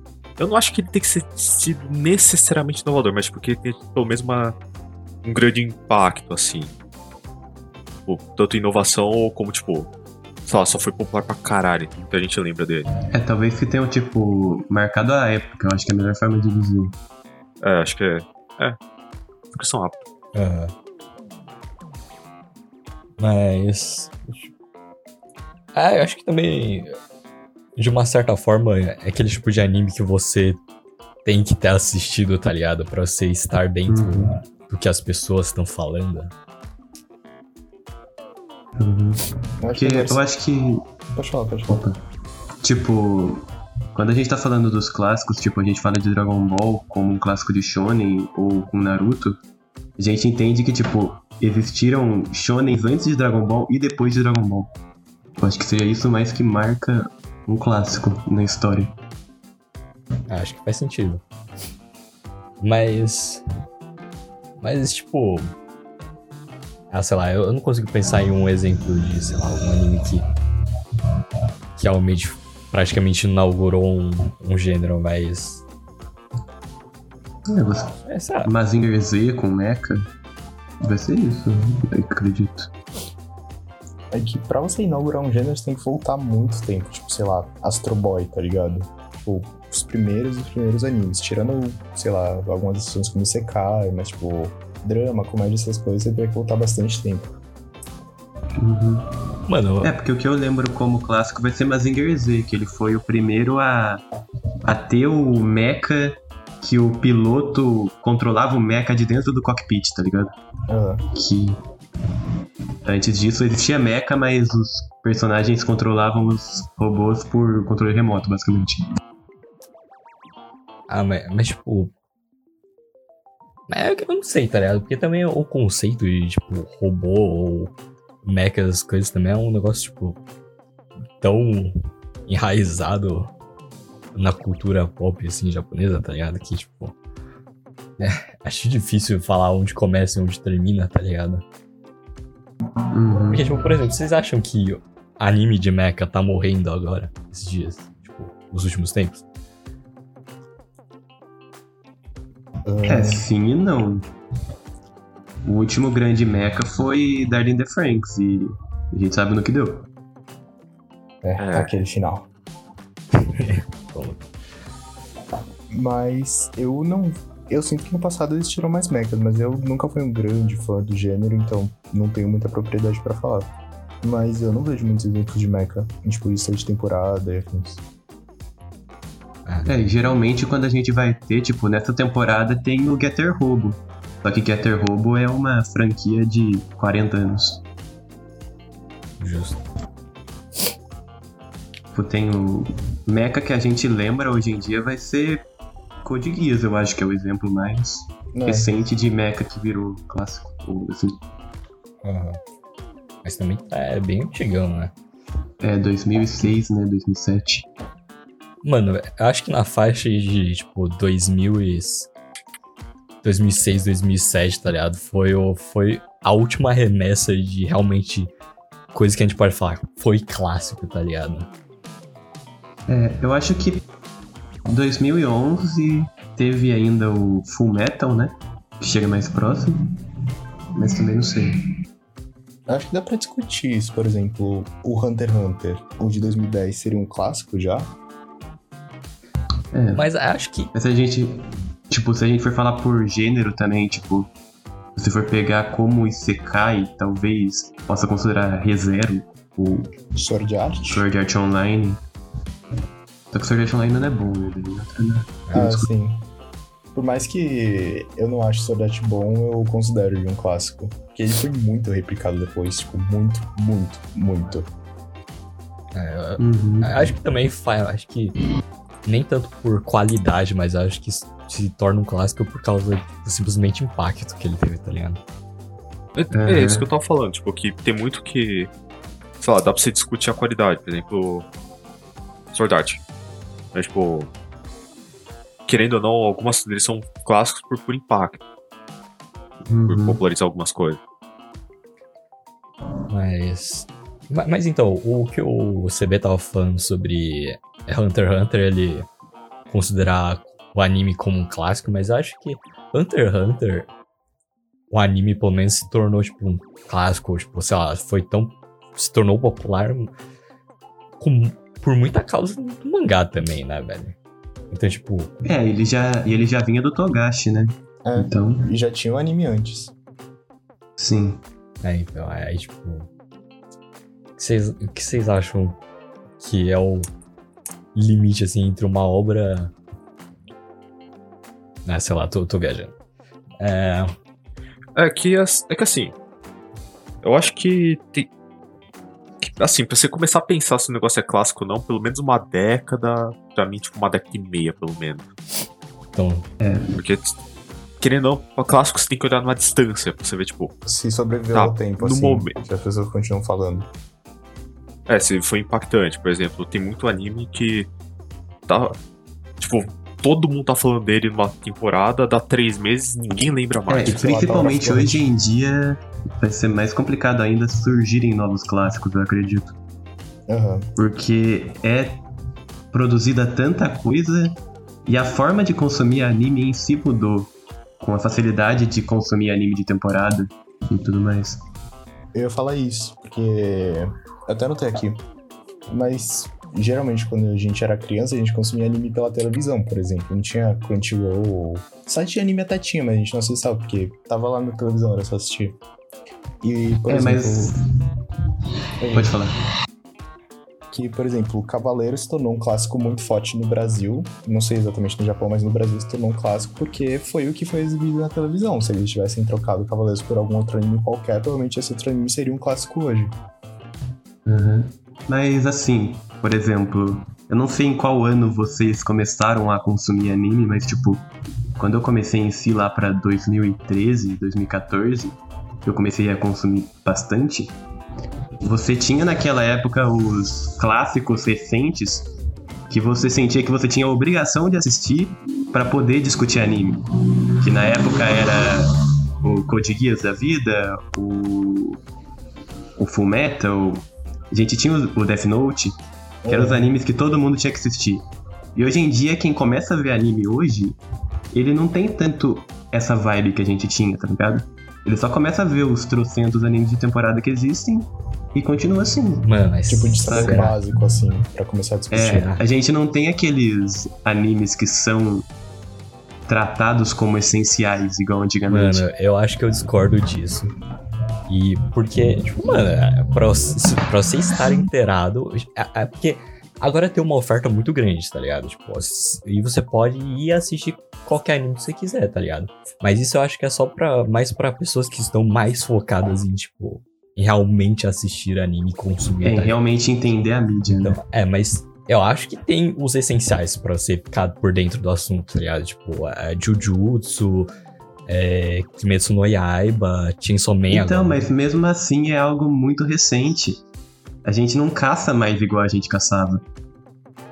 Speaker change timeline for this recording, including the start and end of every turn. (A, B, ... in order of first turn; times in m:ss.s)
0:00.4-0:04.6 A
0:05.2-0:06.7 A
0:08.0-0:09.9 A
0:10.4-0:12.9 A
0:13.1-0:17.0 B
0:17.6-0:18.8 A
0:19.5-0:20.0 A
0:20.3-0:20.7 C
0:23.2-0:24.5 C
0:25.7-0:27.0 C
0:27.8-0:30.6 C
0:31.2-0:36.3 C
0:33.9-0:34.4 B
0:38.8-0:40.8 B
0:39.6-0:40.2 D
0:41.1-0:41.8 D
0:41.7-0:42.0 B
0:42.6-0:49.4 B
0:50.0-0:54.7 B
0:55.4-0:59.0 B
1:00.3-1:01.2 C
1:02.6-1:03.4 C
1:04.6-1:05.5 C
1:06.9-1:10.2 C
1:11.8-1:15.6 C
1:17.4-1:20.1 B
1:18.0-1:18.5 C
1:20.8-1:22.7 B
1:24.1-1:37.4 D
1:38.6-1:39.1 B
1:39.5-1:39.9 C
1:39.8-1:44.0 B
1:44.6-1:50.3 B
1:50.7-1:51.0 D
1:51.1-1:51.6 B
1:52.8-1:58.8 B
2:00.9-2:01.9 C
2:03.7-2:10.2 C
2:11.2-2:13.3 C
2:14.1-2:17.0 C
2:18.0-2:21.4 C
2:22.9-2:23.5 B
2:23.3-2:29.2 C
2:32.6-2:33.2 D
2:32.8-2:34.0 B
2:35.4-2:39.9 B
2:41.2-2:42.3 D
2:41.4-2:41.8 A
2:43.1-2:44.2 C
2:45.7-2:57.8 D
2:59.4-2:59.7 C
2:59.6-3:07.6 B
3:09.2-3:09.6 C
3:11.9-3:15.4 B
3:16.0-3:21.2 B
3:18.3-3:18.7 D
3:23.2-3:24.9 C
3:25.6-3:27.7 B
3:28.6-3:32.1 C
3:33.2-3:38.3 C
3:38.9-3:41.5 C
3:42.9-3:43.8 B
3:44.6-3:49.8 B
3:50.7-3:51.6 B
3:52.7-3:57.9 D
3:59.7-4:00.0 B
3:59.9-4:00.7 C
4:00.7-4:04.3 B
4:05.0-4:09.9 B
4:10.1-4:11.0 D
4:10.9-4:12.0 B
4:13.3-4:15.9 B
4:15.5-4:16.2 D
4:16.9-4:24.7 D
4:25.9-4:28.4 C
4:26.4-4:27.1 B
4:29.0-4:35.2 C
4:36.1-4:38.7 A
4:36.3-4:36.9 B
4:39.4-4:41.5 A
4:42.5-4:43.0 A
4:43.7-4:44.3 A
4:45.7-4:48.4 A
4:49.7-4:50.2 B
4:49.9-4:51.0 A
4:53.1-4:59.1 C
4:59.7-5:03.9 C
5:04.9-5:10.1 C
5:11.2-5:14.2 C
5:14.7-5:15.3 C
5:15.4-5:18.7 B
5:18.0-5:19.9 D
5:21.0-5:21.4 B
5:21.8-5:23.1 C
5:24.4-5:25.8 C
5:26.4-5:27.1 C
5:27.9-5:29.7 C
5:31.8-5:32.9 C
5:33.6-5:34.1 C
5:34.9-5:36.1 A
5:37.2-5:38.3 A
5:39.4-5:45.3 A
5:46.1-5:46.5 C
5:46.6-5:47.0 B
5:46.9-5:47.4 A
5:48.0-5:50.7 A
5:50.8-5:53.9 D
5:51.5-5:52.6 A
5:55.1-5:57.9 A
5:58.7-5:59.0 A
5:59.6-6:04.5 A
6:03.9-6:09.8 B
6:04.0-6:05.3 D
6:10.5-6:10.9 D
6:11.0-6:12.2 B
6:12.9-6:21.6 B
6:22.3-6:25.2 D
6:25.9-6:35.8 D
6:36.6-6:37.7 D
6:37.1-6:37.8 B
6:39.0-6:39.3 D
6:39.1-6:39.5 B
6:40.9-6:53.4 D
6:54.4-7:07.8 B
7:08.6-7:12.3 B
7:12.9-7:17.0 B
7:17.6-7:22.0 B
7:23.0-7:26.0 B
7:26.4-7:26.9 D
7:26.5-7:28.2 B
7:28.7-7:31.0 B
7:31.5-7:39.5 B
7:39.4-7:40.8 C
7:39.9-7:42.5 D
7:40.2-7:40.7 B
7:42.1-7:45.5 B
7:42.1-7:42.6 C
7:46.5-7:49.1 B
7:48.7-7:50.7 C
7:51.5-8:09.8 C
8:09.4-8:11.2 B
8:10.9-8:17.7 C
8:18.3-8:21.5 C
8:20.9-8:23.8 B
8:24.4-8:26.6 B